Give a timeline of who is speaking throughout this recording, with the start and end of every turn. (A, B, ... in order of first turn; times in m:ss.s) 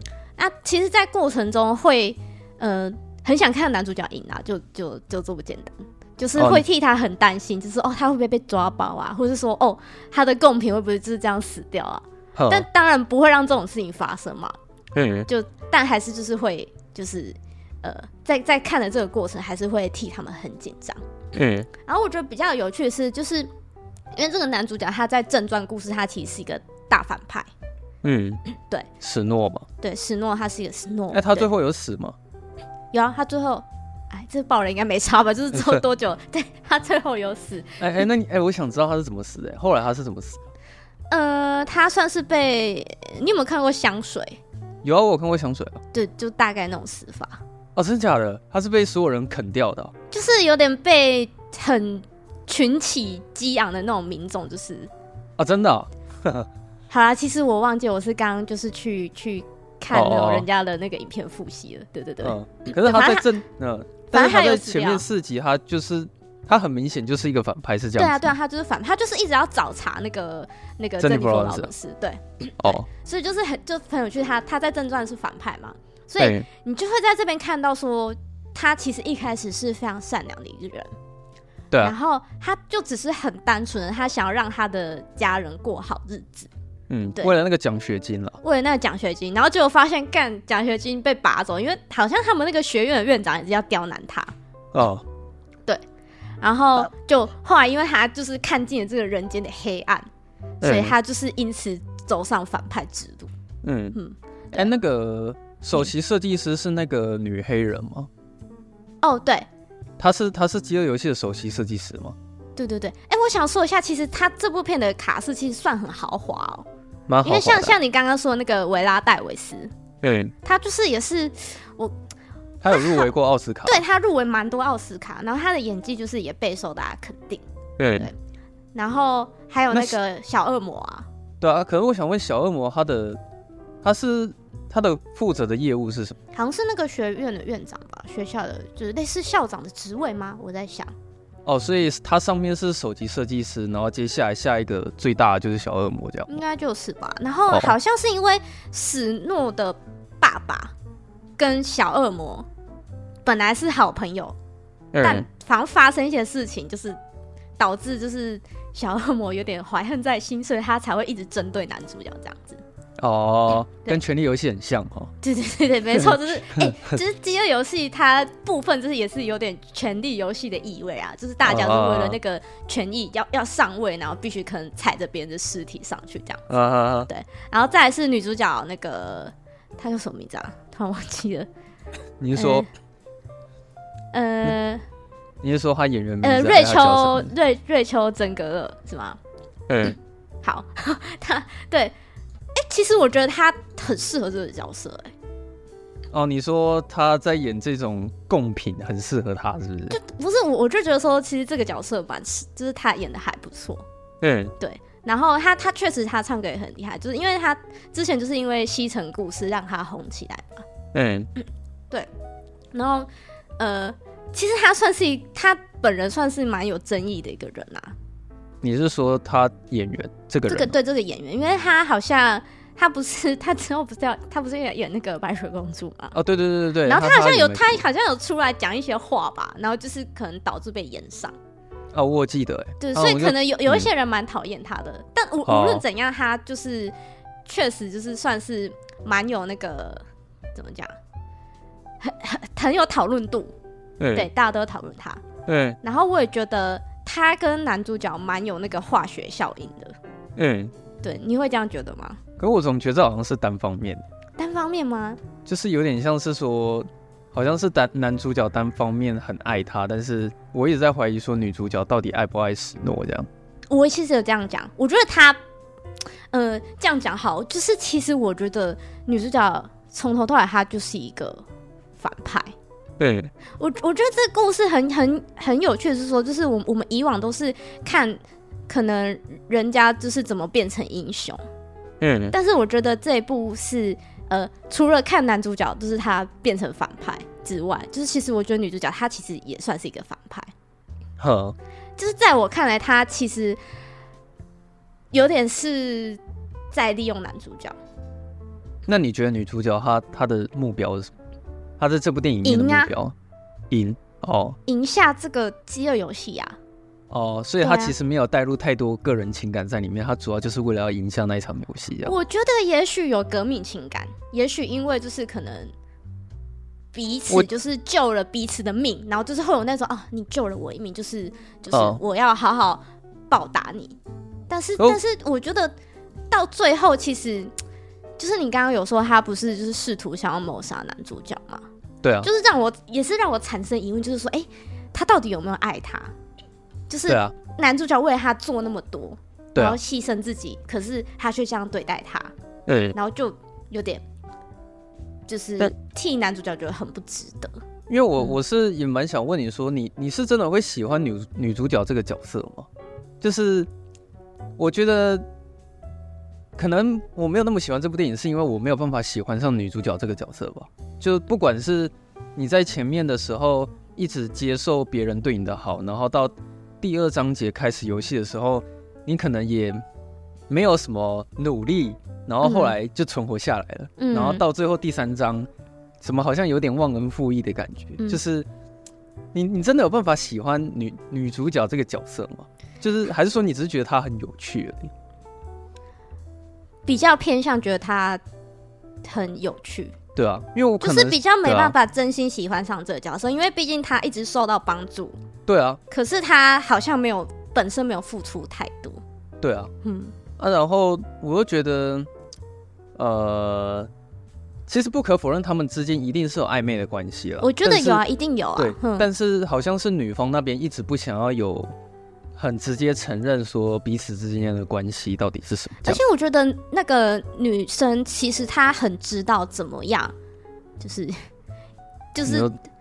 0:00.4-0:14.6 A
0:06.4-0:06.6 B
0:12.4-0:12.6 B
0:15.0-0:15.3 B
0:15.3-0:21.0 A
0:21.3-0:21.7 B
0:21.8-0:23.5 A
0:24.1-0:27.5 A
0:28.0-0:28.4 B
0:28.5-0:28.9 A
0:29.0-0:29.7 B
0:29.8-0:31.5 A
0:31.1-0:32.2 B
0:32.9-0:38.0 A
0:35.6-0:35.8 B
0:37.8-0:40.4 B
0:41.1-0:44.4 A
0:44.8-0:45.8 B
0:45.9-0:47.4 A
0:47.8-0:49.9 B
0:50.1-0:54.9 A
0:55.4-0:56.5 B
0:56.9-1:03.3 A
0:59.9-1:00.5 B
1:02.2-1:08.3 B
1:04.1-1:05.0 A
1:08.0-1:20.9 A
1:11.0-1:11.7 B
1:12.6-1:12.9 B
1:16.2-1:16.4 B
1:21.8-1:26.5 A
1:26.9-1:28.4 B
1:28.4-1:34.3 A
1:34.7-1:35.0 B
1:36.4-1:40.1 A
1:40.6-1:43.3 A
1:40.6-1:41.0 B
1:43.6-1:44.0 B
1:43.9-1:44.7 A
1:44.5-1:48.1 B
1:49.0-1:49.5 A
1:50.0-1:52.2 B
1:52.6-1:56.7 A
1:57.1-1:57.8 B
1:57.2-1:59.7 A
2:00.0-2:00.3 B
2:00.4-2:02.0 A
2:02.6-2:03.8 B
2:02.7-2:03.1 A
2:03.6-2:08.2 A
2:07.8-2:08.1 B
2:08.8-2:11.1 A
2:11.4-2:13.2 B
2:13.8-2:16.2 B
2:16.3-2:20.9 A
2:21.5-2:26.4 B
2:26.3-2:30.7 A
2:27.5-2:27.7 B
2:31.4-2:32.5 A
2:33.2-2:34.4 A
2:34.9-2:35.2 B
2:35.0-2:37.0 A
2:37.6-2:42.6 A
2:43.0-2:45.1 B
2:45.2-2:56.5 A
2:46.0-2:46.9 B
2:51.4-2:52.2 B
2:56.5-2:57.1 B
2:57.1-3:01.5 A
3:02.2-3:02.7 B
3:02.4-3:02.7 A
3:04.1-3:04.8 A
3:05.4-3:07.3 B
3:06.2-3:09.2 A
3:09.7-3:10.0 B
3:10.4-3:11.9 A
3:12.6-3:15.1 A
3:16.1-3:20.0 B
3:19.9-3:23.8 A
3:24.2-3:24.5 B
3:24.6-3:30.6 A
3:30.9-3:31.3 B
3:31.4-3:32.1 A
3:32.7-3:38.0 A
3:38.6-3:40.8 B
3:40.5-3:46.2 A
3:46.1-3:47.8 B
3:46.8-3:51.4 A
3:51.9-3:53.9 B
3:52.8-3:56.9 A
3:55.5-3:55.8 B
3:57.4-4:00.0 A
4:00.6-4:00.9 A
4:02.0-4:03.5 A
4:04.0-4:04.3 B
4:04.1-4:05.2 A
4:05.5-4:05.8 B
4:05.8-4:10.0 A
4:10.4-4:10.7 B
4:11.0-4:12.2 A
4:12.4-4:14.0 B
4:14.4-4:15.2 A
4:15.5-4:23.3 B
4:23.7-4:25.4 A
4:26.3-4:31.4 A
4:32.0-4:32.5 A
4:33.0-4:33.3 B
4:33.6-4:41.4 A
4:42.0-4:42.3 B
4:42.3-4:50.5 A
4:51.2-4:51.6 B
4:52.0-4:53.6 A
4:55.1-4:56.2 A
4:56.7-4:57.8 A
4:58.9-5:01.1 B
5:01.8-5:03.1 B
5:02.4-5:02.9 A
5:03.7-5:04.6 B
5:04.7-5:06.6 A
5:07.1-5:12.1 B
5:07.6-5:07.9 A
5:12.0-5:15.7 A
5:16.9-5:24.0 A
5:21.7-5:22.0 B
5:24.5-5:25.7 A
5:26.3-5:27.5 A
5:28.2-5:31.6 A
5:32.0-5:32.3 B
5:32.2-5:36.1 A
5:36.9-5:42.3 A
5:37.1-5:37.3 B
5:42.7-5:42.9 B
5:42.9-5:44.0 A
5:45.3-5:47.6 A
5:47.9-5:52.7 B
5:53.2-5:53.7 B
5:54.6-5:55.2 B
5:56.6-6:09.8 B
6:10.5-6:15.5 B
6:12.4-6:12.7 A
6:14.0-6:14.4 A
6:16.0-6:18.5 B
6:19.3-6:24.9 B
6:26.9-6:28.2 A
6:29.0-6:30.0 A
6:30.2-6:31.7 B
6:30.8-6:35.2 A
6:35.5-6:35.8 B
6:35.9-6:39.0 A
6:39.4-6:39.7 B
6:39.8-6:40.2 A
6:40.4-6:42.1 B
6:43.0-6:43.9 B
6:44.7-6:48.0 B
6:47.4-6:49.1 A
6:48.6-6:51.7 B
6:52.4-6:56.0 B
6:55.8-7:00.1 A
7:00.8-7:01.2 A
7:02.2-7:02.5 A
7:02.3-7:02.5 B